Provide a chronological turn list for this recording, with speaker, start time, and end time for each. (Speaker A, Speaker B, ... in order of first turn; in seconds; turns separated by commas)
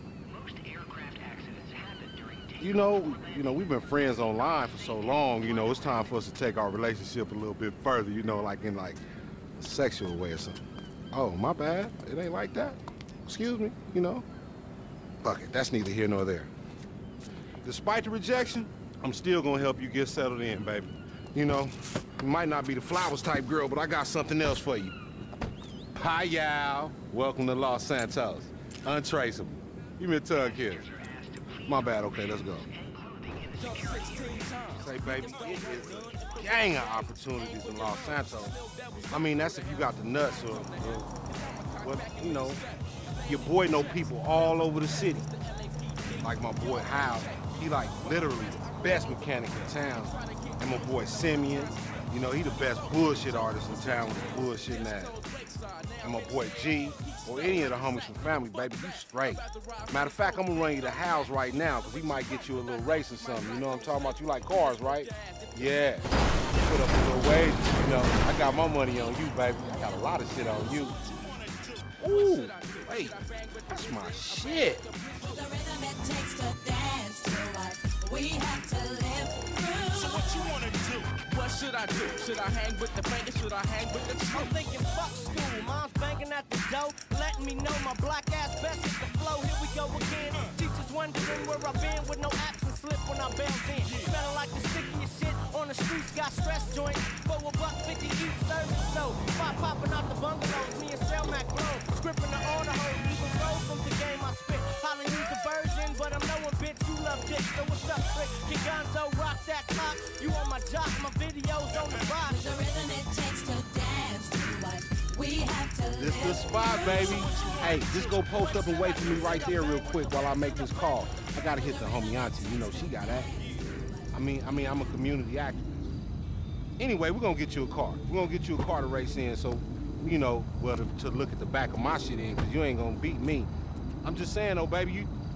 Speaker A: 0.3-2.5, Speaker B: 2.6-9.0, Speaker B: 9.6-14.2, Speaker B: 15.2-16.5, Speaker B: 17.6-25.0, Speaker B: 25.9-32.7, Speaker A: 33.1-33.5, Speaker C: 33.9-34.6, Speaker B: 34.6-42.7, Speaker B: 43.2-45.3, Speaker B: 46.1-55.2, Speaker B: 55.9-71.0, Speaker B: 72.0-74.9, Speaker D: 75.3-80.3, Speaker C: 81.2-84.1, Speaker E: 84.3-113.0, Speaker D: 112.9-115.9, Speaker B: 115.9-123.6, Speaker B: 124.1-126.0, Speaker B: 126.8-133.5, Speaker B: 134.0-135.1